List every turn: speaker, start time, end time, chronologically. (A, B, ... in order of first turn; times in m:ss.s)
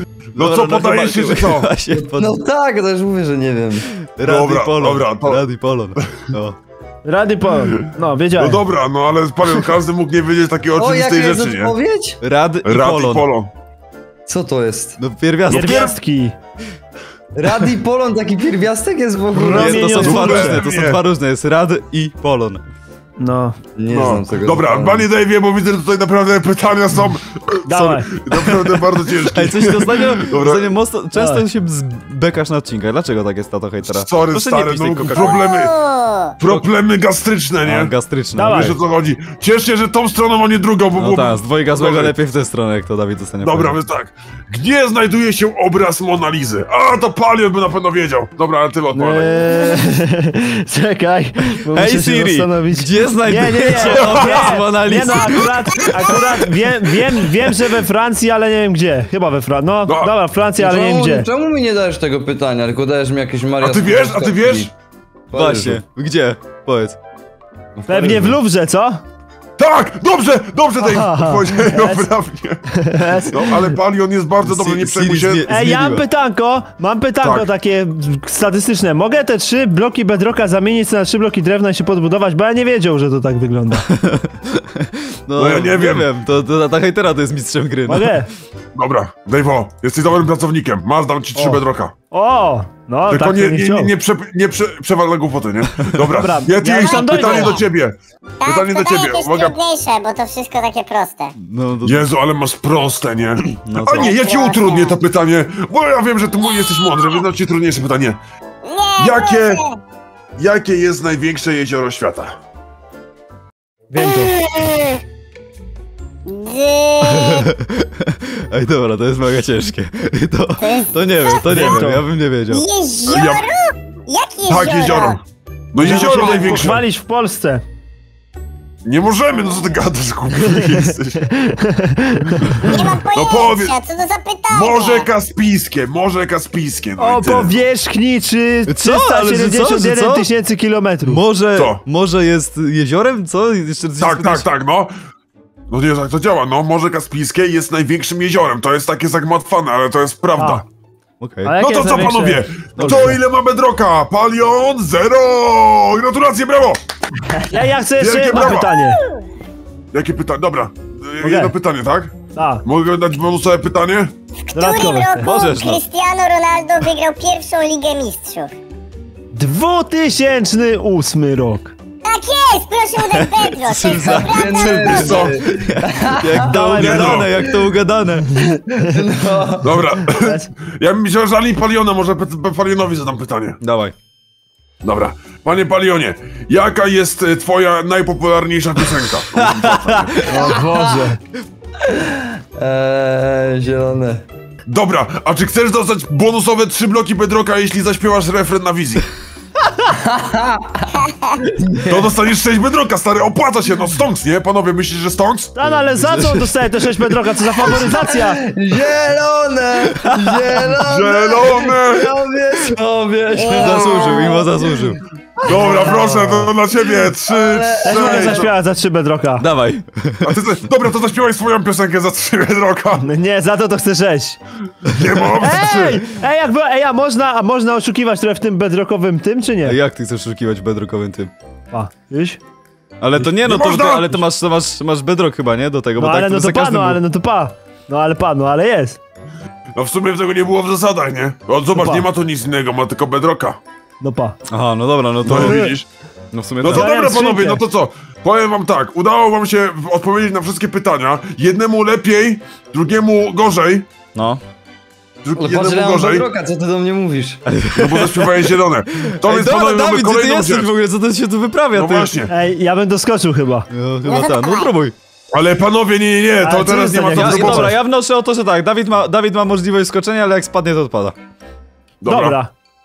0:00.3-0:02.4 A
0:00.4-0:01.7 B
0:01.9-0:03.8 C
0:04.0-0:06.6 A
0:04.2-0:05.4 B
0:07.0-0:08.6 D
0:08.4-0:11.7 B
0:10.8-0:12.2 C
0:12.2-0:13.3 A
0:12.6-0:13.5 B
0:14.2-0:15.0 C
0:15.0-0:15.9 A
0:15.5-0:16.3 D
0:15.5-0:15.9 B
0:17.3-0:20.3 C
0:19.3-0:20.6 D
0:19.4-0:22.6 A
0:19.7-0:21.0 B
0:23.2-0:23.6 D
0:23.8-0:25.1 C
0:23.9-0:30.7 B
0:27.7-0:28.1 D
0:29.2-0:35.4 A
0:31.1-0:31.4 D
0:33.8-0:35.7 B
0:35.2-0:36.3 E
0:36.4-0:42.1 B
0:37.6-0:38.8 A
0:38.3-0:38.8 D
0:41.0-0:43.8 A
0:43.4-0:49.4 B
0:48.9-1:01.3 D
0:51.7-0:55.8 A
0:53.8-0:54.6 B
0:59.8-1:00.1 B
1:00.6-1:04.7 C
1:03.6-1:04.7 B
1:05.3-1:05.8 C
1:05.3-1:07.0 A
1:07.8-1:08.4 C
1:07.8-1:09.0 D
1:09.6-1:12.6 B
1:10.8-1:12.0 D
1:12.7-1:13.7 D
1:13.2-1:15.4 B
1:14.4-1:16.0 A
1:15.5-1:23.8 D
1:17.2-1:17.5 B
1:23.8-1:28.2 A
1:25.4-1:26.1 B
1:27.9-1:28.3 D
1:28.7-1:31.9 B
1:31.3-1:33.9 D
1:33.1-1:39.6 B
1:36.1-1:37.6 D
1:36.8-1:37.6 E
1:38.4-1:41.3 E
1:41.4-1:42.1 A
1:41.8-1:48.2 B
1:43.6-1:44.1 A
1:44.0-1:45.0 E
1:48.6-1:49.8 E
1:49.0-1:49.6 B
1:50.4-1:52.3 B
1:53.9-1:54.4 D
1:54.4-1:55.0 E
1:56.2-1:57.4 E
1:57.1-2:02.6 A
2:00.6-2:01.4 E
2:01.5-2:02.0 D
2:02.5-2:05.2 E
2:03.1-2:03.5 B
2:04.4-2:05.2 B
2:05.7-2:06.8 B
2:05.8-2:07.6 D
2:08.8-2:11.2 B
2:11.3-2:12.8 D
2:12.6-2:15.1 E
2:12.6-2:13.8 B
2:14.5-2:17.6 B
2:17.0-2:21.2 D
2:18.7-2:20.3 A
2:21.0-2:24.5 A
2:21.5-2:21.8 B
2:24.0-2:24.9 B
2:25.7-2:30.6 B
2:30.4-2:30.6 D
2:31.2-2:31.5 A
2:31.4-2:33.2 D
2:31.6-2:36.8 B
2:37.4-2:39.0 D
2:38.0-2:38.7 B
2:38.8-2:39.2 E
2:39.9-2:44.1 B
2:41.2-2:41.5 D
2:42.3-2:42.6 D
2:44.5-2:48.5 E
2:44.5-2:45.3 D
2:45.2-2:45.8 A
2:49.3-2:51.7 D
2:52.0-2:55.2 E
2:53.1-2:58.3 A
2:53.9-2:56.6 C
2:54.9-2:55.3 B
2:56.4-2:57.3 D
2:56.8-2:57.3 B
2:58.5-2:59.8 C
2:59.6-3:03.6 B
3:00.0-3:00.5 D
3:03.6-3:03.9 A
3:04.8-3:10.5 B
3:09.4-3:10.6 A
3:10.3-3:11.2 D
3:10.6-3:11.1 C
3:11.8-3:14.2 C
3:14.6-3:19.0 B
3:19.9-3:22.0 C
3:21.8-3:25.5 B
3:25.5-3:28.4 D
3:25.6-3:27.8 A
3:27.6-3:34.9 C
3:30.8-3:32.1 B
3:33.3-3:34.5 E
3:33.5-3:35.0 A
3:33.6-3:34.0 B
3:35.4-3:36.2 C
3:35.4-3:38.5 B
3:36.0-3:36.4 D
3:37.3-3:38.4 C
3:37.8-3:39.4 D
3:39.4-3:40.3 A
3:40.2-3:43.1 B
3:43.0-3:44.4 D
3:44.8-3:46.0 B
3:45.4-3:49.8 D
3:49.6-3:51.3 A
3:51.7-3:52.4 D
3:53.0-3:57.0 A
3:53.2-3:54.2 B
3:56.0-3:59.0 D
3:59.7-4:03.6 B
4:01.7-4:02.0 D
4:04.0-4:04.4 D
4:04.5-4:05.7 A
4:05.2-4:05.9 B
4:05.3-4:05.7 D
4:06.3-4:07.0 A
4:06.6-4:13.8 B
4:06.7-4:07.6 D
4:14.1-4:14.4 A
4:15.2-4:16.3 B
4:15.4-4:17.4 C
4:17.5-4:18.4 A
4:17.7-4:20.7 B
4:19.0-4:22.1 A
4:21.7-4:22.3 B
4:22.3-4:23.7 D
4:23.7-4:24.9 A
4:24.0-4:24.7 E
4:25.3-4:27.7 B
4:26.4-4:27.8 D
4:27.1-4:31.1 A
4:32.0-4:32.4 B
4:32.1-4:32.5 D